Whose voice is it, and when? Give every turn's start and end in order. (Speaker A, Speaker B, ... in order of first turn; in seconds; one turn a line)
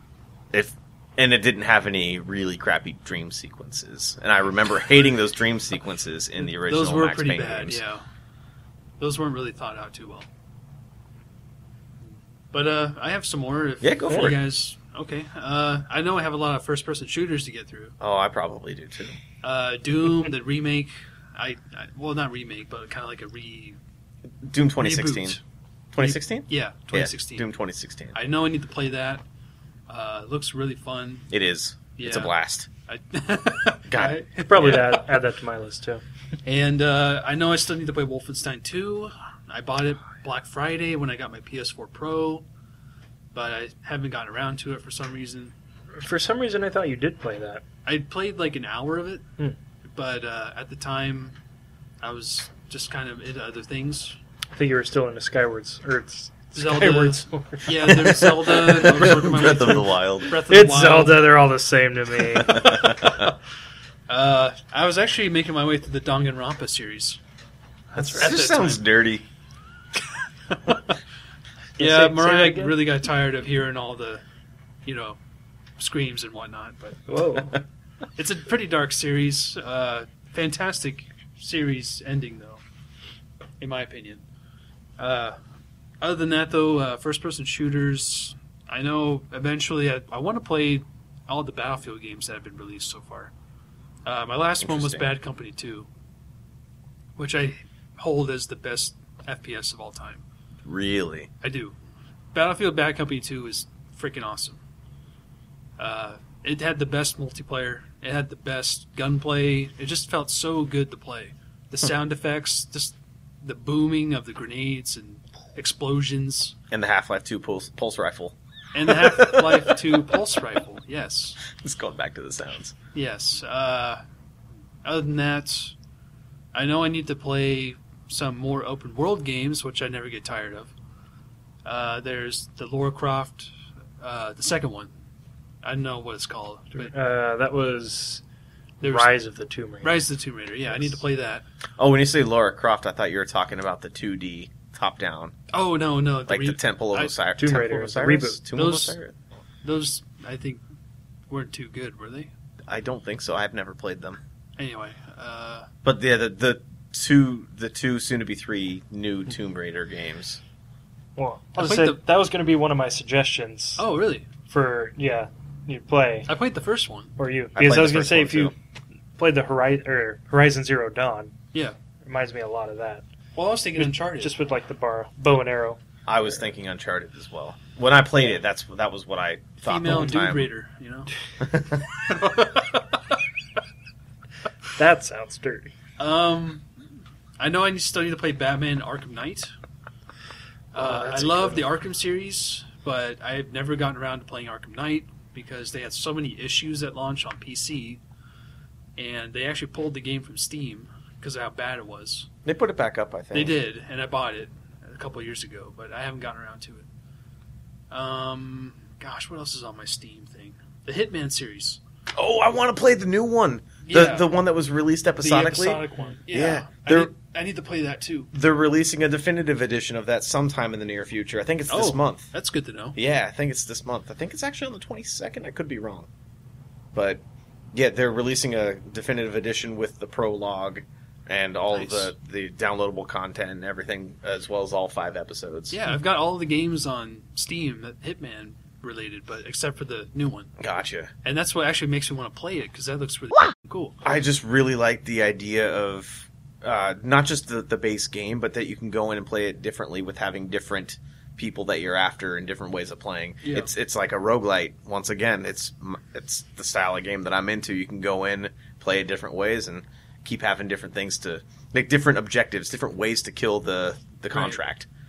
Speaker A: 0.5-7.8
Speaker B: 6.4-8.0
Speaker B: 9.0-10.3
Speaker B: 12.5-18.0
Speaker A: 13.8-14.4
Speaker A: 18.0-19.2
Speaker B: 19.4-23.8
Speaker A: 24.4-25.4
Speaker B: 24.8-25.4
Speaker A: 25.9-28.2
Speaker B: 26.0-27.5
Speaker B: 28.1-29.2
Speaker B: 29.9-31.3
Speaker A: 31.3-32.7
Speaker B: 32.0-32.3
Speaker B: 32.9-35.1
Speaker A: 33.9-34.9
Speaker C: 34.4-36.0
Speaker B: 36.5-42.5
Speaker B: 43.3-45.5
Speaker C: 45.9-47.6
Speaker B: 47.9-49.3
Speaker B: 49.9-51.4
Speaker B: 52.0-54.2
Speaker C: 54.5-59.3
Speaker B: 56.5-61.4
Speaker A: 58.9-60.3
Speaker C: 60.4-62.9
Speaker A: 62.5-63.3
Speaker B: 62.5-63.1
Speaker B: 64.1-67.2
Speaker C: 68.0-68.3
Speaker B: 68.0-68.8
Speaker A: 68.0-69.2
Speaker B: 70.5-71.0
Speaker C: 71.8-72.8
Speaker B: 71.8-74.2
Speaker B: 74.8-75.2
Speaker B: 75.8-77.1
Speaker C: 77.1-77.6
Speaker B: 78.2-82.6
Speaker B: 83.6-84.2
Speaker B: 85.0-85.4
Speaker B: 86.0-93.3
Speaker B: 94.0-95.9
Speaker A: 94.6-95.1
Speaker B: 97.2-100.2
Speaker A: 100.7-101.3
Speaker B: 101.4-101.8
Speaker B: 102.3-104.6
Speaker B: 105.8-116.5
Speaker A: 116.7-118.4
Speaker B: 118.7-121.4
Speaker A: 118.9-120.2
Speaker A: 121.5-122.8
Speaker B: 122.9-124.0
Speaker B: 124.8-125.8
Speaker B: 126.5-130.7
Speaker B: 131.7-133.5
Speaker B: 134.0-134.9
Speaker B: 135.6-136.9
Speaker C: 136.8-138.2
Speaker B: 138.8-139.1
Speaker C: 138.8-140.0
Speaker B: 139.8-141.4
Speaker A: 141.8-145.3
Speaker B: 145.5-147.2
Speaker A: 146.3-149.1
Speaker C: 147.4-148.4
Speaker B: 148.6-149.0
Speaker B: 149.6-150.6
Speaker B: 151.3-152.3
Speaker A: 152.7-154.2
Speaker B: 154.6-155.7
Speaker A: 155.8-160.4
Speaker C: 161.2-163.8
Speaker B: 161.6-162.0
Speaker B: 163.8-164.3
Speaker C: 164.5-166.3
Speaker B: 166.3-167.1
Speaker C: 167.2-168.5
Speaker A: 167.6-168.5
Speaker C: 169.2-171.3
Speaker C: 172.0-173.1
Speaker B: 173.4-174.3
Speaker C: 173.8-175.8
Speaker A: 176.1-180.5
Speaker B: 179.6-181.1
Speaker A: 181.4-181.9
Speaker B: 182.1-182.8
Speaker C: 184.8-185.7
Speaker B: 186.0-186.7
Speaker B: 187.4-189.5
Speaker B: 190.7-198.0
Speaker C: 190.8-191.6
Speaker B: 199.0-202.3
Speaker A: 202.4-203.6
Speaker B: 203.3-206.9
Speaker B: 207.9-211.8
Speaker A: 212.2-217.1
Speaker B: 213.8-214.3
Speaker B: 215.2-218.3
Speaker A: 218.3-222.3
Speaker B: 221.7-223.0
Speaker A: 223.0-226.1
Speaker A: 226.9-227.2
Speaker A: 227.7-235.8
Speaker B: 231.7-232.1
Speaker B: 235.7-240.5
Speaker A: 240.6-241.1
Speaker B: 241.2-244.0
Speaker A: 244.0-264.9
Speaker B: 253.4-253.7
Speaker B: 264.3-264.6